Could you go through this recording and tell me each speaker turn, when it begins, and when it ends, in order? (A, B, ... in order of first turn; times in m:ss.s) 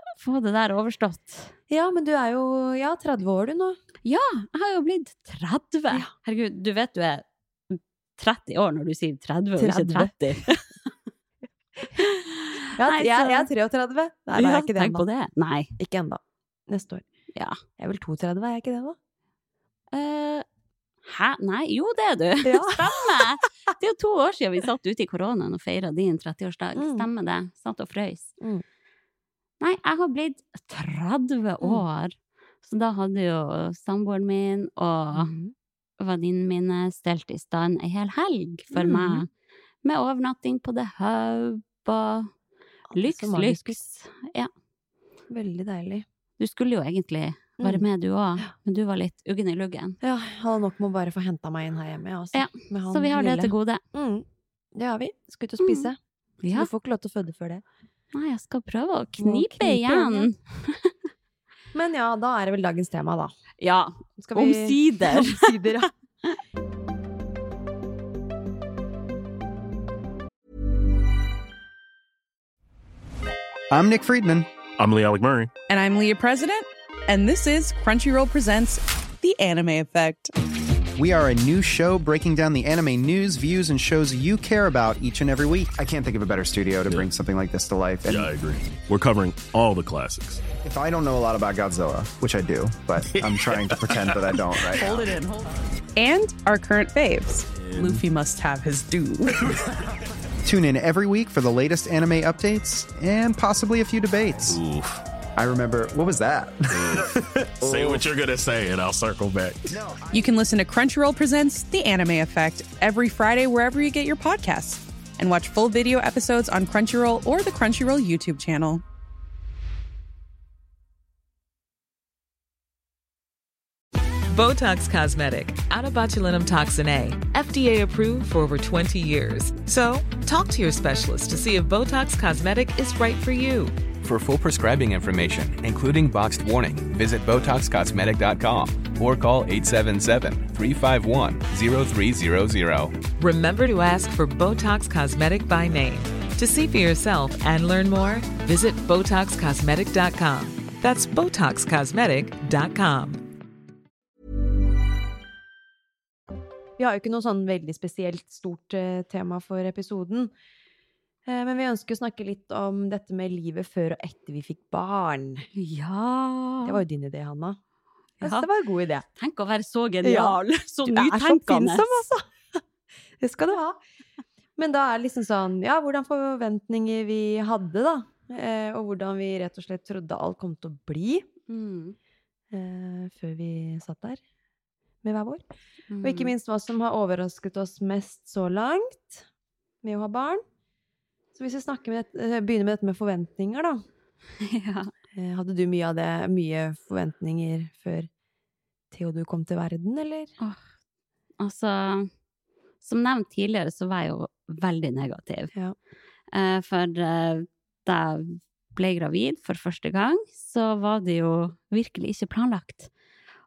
0:00.2-0:01.5 A
0:01.7-0:03.8 B
0:04.0-0:10.6 A
0:09.6-0:10.5 B
0:12.0-0:13.5 A
0:12.7-0:15.1 B
0:14.3-0:15.7 A
0:15.8-0:17.0 B
0:17.8-0:19.0 B
0:19.9-0:20.4 A
0:21.0-0:28.3 A
0:22.4-0:23.2 B
0:26.8-0:27.1 B
0:29.6-0:35.3 A
0:35.1-0:35.5 B
0:36.0-0:39.3 A
0:38.7-0:39.3 B
0:39.8-0:42.3 A
0:42.9-0:43.8 B
0:42.9-0:44.5 A
0:45.3-0:46.0 B
0:46.4-0:50.0 A
0:47.6-0:47.8 B
0:50.0-0:56.0 B
0:52.3-0:53.8 A
0:55.6-0:55.9 A
0:56.4-0:56.7 A
0:56.5-0:57.6 B
0:58.1-1:00.9 A
0:59.2-1:00.3 B
1:01.7-1:03.3 B
1:03.6-1:06.4 A
1:04.2-1:05.9 B
1:13.7-1:14.5 C
1:14.8-1:15.5 D
1:15.7-1:20.3 E
1:21.0-1:28.3 C
1:28.1-1:30.4 D
1:30.6-1:35.0 C
1:33.0-1:34.9 D
1:34.8-1:39.4 E
1:37.5-1:38.0 D
1:40.4-1:44.6 C
1:44.4-1:45.0 D
1:45.4-1:48.1 C
1:46.7-1:47.1 D
1:47.6-1:49.8 D
1:49.7-1:50.3 C
1:50.1-1:58.8 E
2:04.3-2:13.7 F
2:14.0-2:23.0 G
2:23.2-2:33.2 F
2:36.8-2:40.3 B
2:41.3-2:45.5 B
2:45.6-2:46.8 A
2:46.6-2:47.6 B
2:48.2-2:49.0 B
2:48.2-2:48.5 A
2:49.2-2:52.0 A
2:50.0-2:52.6 B
2:53.2-2:53.8 B
2:54.6-3:01.3 B
3:01.5-3:02.0 A
3:02.5-3:04.2 B
3:05.0-3:05.4 B
3:05.9-3:06.3 A
3:06.0-3:09.2 B
3:09.8-3:10.4 B
3:11.3-3:13.8 B
3:14.4-3:14.9 A
3:15.1-3:18.1 B
3:18.9-3:20.3 B
3:21.4-3:22.1 A
3:22.8-3:25.5 A
3:26.3-3:32.9 A